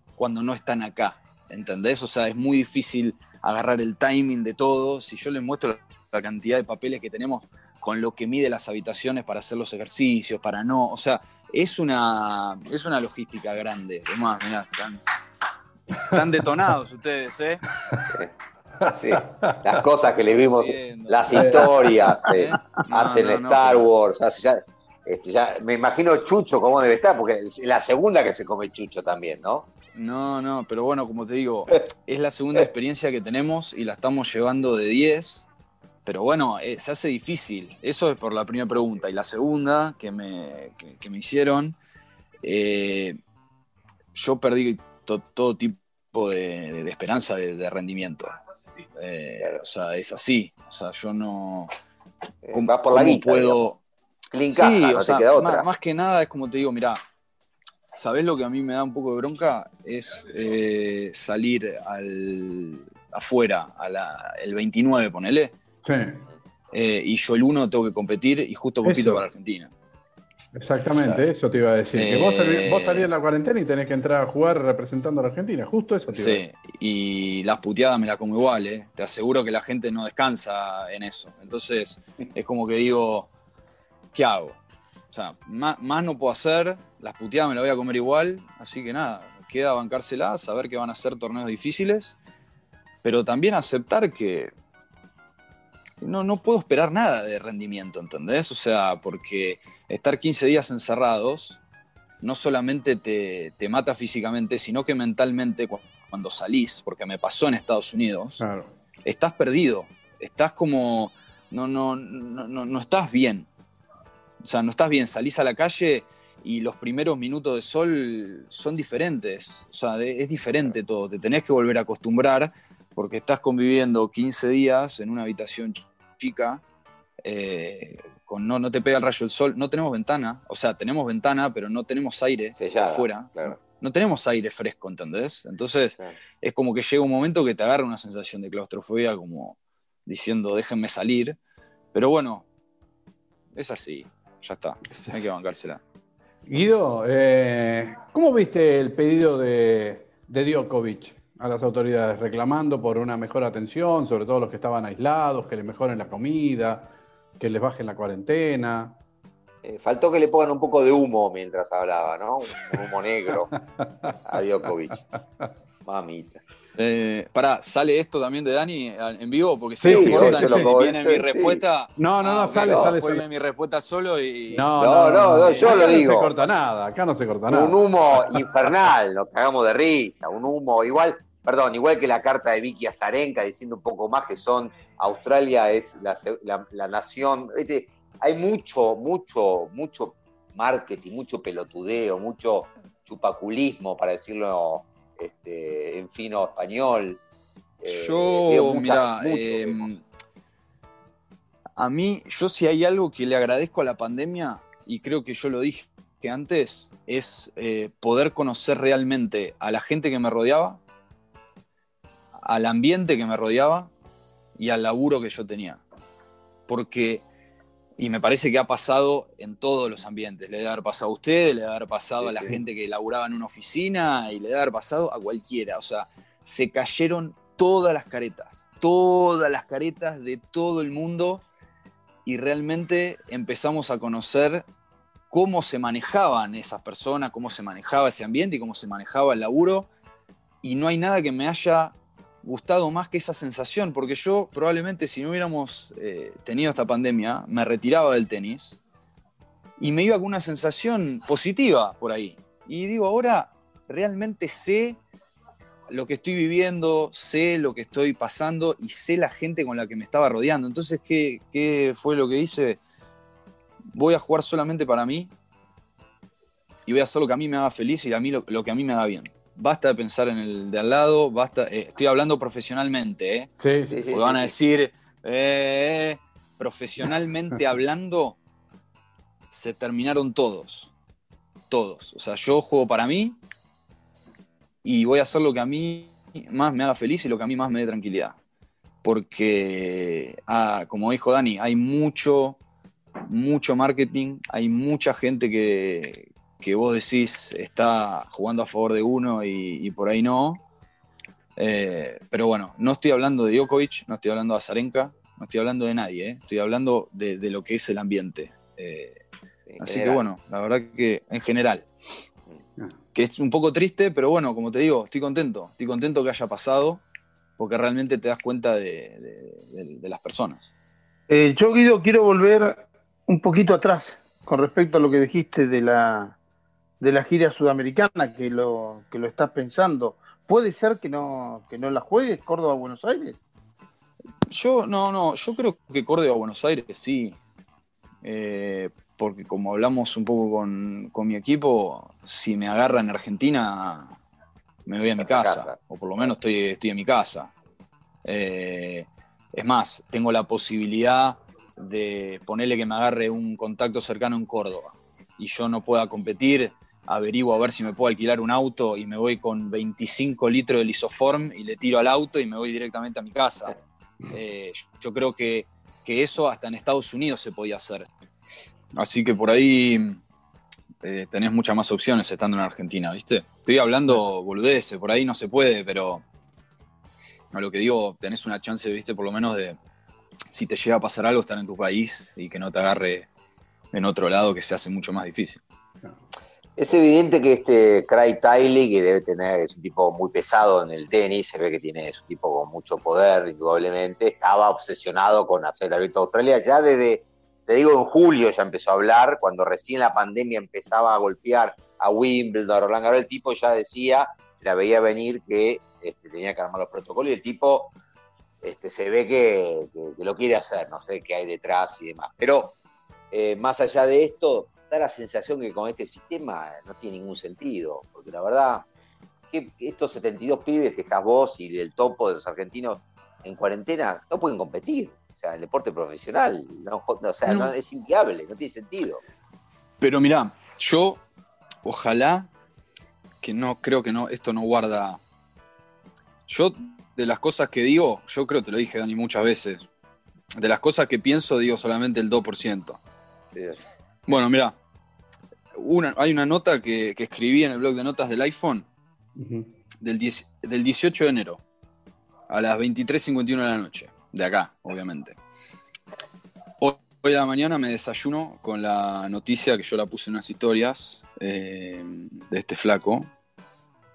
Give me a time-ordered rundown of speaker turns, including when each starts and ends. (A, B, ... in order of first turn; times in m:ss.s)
0:00.2-0:15.0 A
0:16.0-0:17.6 A
0:18.8-0:19.6 B
0:18.9-0:29.7 C
0:20.6-0:23.9 A
0:29.9-0:35.5 A
0:36.0-0:41.8 A
0:42.4-0:43.2 A
0:44.1-0:48.3 A
0:49.0-0:51.7 A
0:52.4-0:53.6 C
0:52.5-0:53.8 A
0:54.3-0:55.7 C
0:54.5-0:57.0 A
0:57.9-1:05.6 A
1:05.8-1:06.2 B
1:06.7-1:09.7 A
1:08.8-1:09.3 B
1:10.5-1:16.4 B
1:12.0-1:13.1 A
1:16.1-1:23.3 A
1:24.1-1:24.6 A
1:25.1-1:32.2 A
1:33.0-1:34.5 A
1:36.0-1:41.6 A
1:42.2-1:48.4 A
1:48.4-1:48.7 B
1:49.0-1:53.5 A
1:54.4-2:06.6 A
2:07.2-2:21.4 A
2:12.6-2:13.6 C
2:21.9-2:22.5 A
2:23.5-2:25.8 A
2:26.5-2:39.0 B
2:39.6-2:43.5 C
2:43.8-2:44.2 B
2:44.2-2:45.0 C
2:45.8-2:46.4 C
2:46.8-2:54.7 A
2:49.8-2:50.7 B
2:49.8-2:51.6 C
2:52.0-2:53.2 B
2:52.6-2:52.9 C
2:54.5-2:57.8 B
2:54.8-2:56.3 C
2:55.3-2:56.1 A
2:57.5-3:17.2 C
3:17.8-3:19.9 C
3:17.8-3:20.0 A
3:21.8-3:30.8 A
3:32.4-3:33.9 A
3:34.6-3:35.8 A
3:36.7-3:37.2 A
3:38.0-3:51.4 A
3:42.2-3:42.5 C
3:52.3-3:54.7 A
3:55.3-3:59.9 A
4:00.6-4:08.8 A
4:09.8-4:15.0 A
4:15.9-4:22.8 A
4:23.9-4:25.3 A
4:26.9-4:33.5 A
4:33.6-4:34.0 B
4:33.9-4:34.5 C
4:34.1-4:38.4 A
4:39.5-4:40.9 A
4:41.7-4:43.4 A
4:44.8-4:48.4 A
4:49.0-4:52.6 A
4:53.2-5:00.6 A
5:01.6-5:09.2 A
5:09.7-5:10.2 C
5:09.8-5:11.9 A
5:13.1-5:17.0 A
5:17.6-5:20.7 A
5:21.3-5:26.4 D
5:27.0-5:33.4 D
5:34.5-5:37.4 A
5:38.2-5:44.2 A
5:44.9-5:47.5 A
5:45.2-5:46.3 C
5:48.2-6:03.8 A
6:04.3-6:08.1 A
6:08.9-6:10.2 A
6:11.0-6:16.2 A
6:17.5-6:19.8 A
6:20.5-6:23.3 A
6:23.9-6:25.6 A
6:26.8-6:47.9 C
6:48.6-6:52.8 C
6:53.3-6:58.9 C
6:59.5-7:09.2 C
7:07.5-7:07.7 A
7:10.0-7:11.2 A
7:11.8-7:12.5 A
7:13.4-7:15.2 A
7:16.5-7:19.9 A
7:20.6-7:23.0 A
7:23.5-7:23.9 C
7:24.3-7:24.8 A
7:25.7-7:28.9 A
7:29.4-7:29.7 B
7:30.0-7:31.6 A
7:32.5-7:35.4 A
7:36.8-7:43.3 A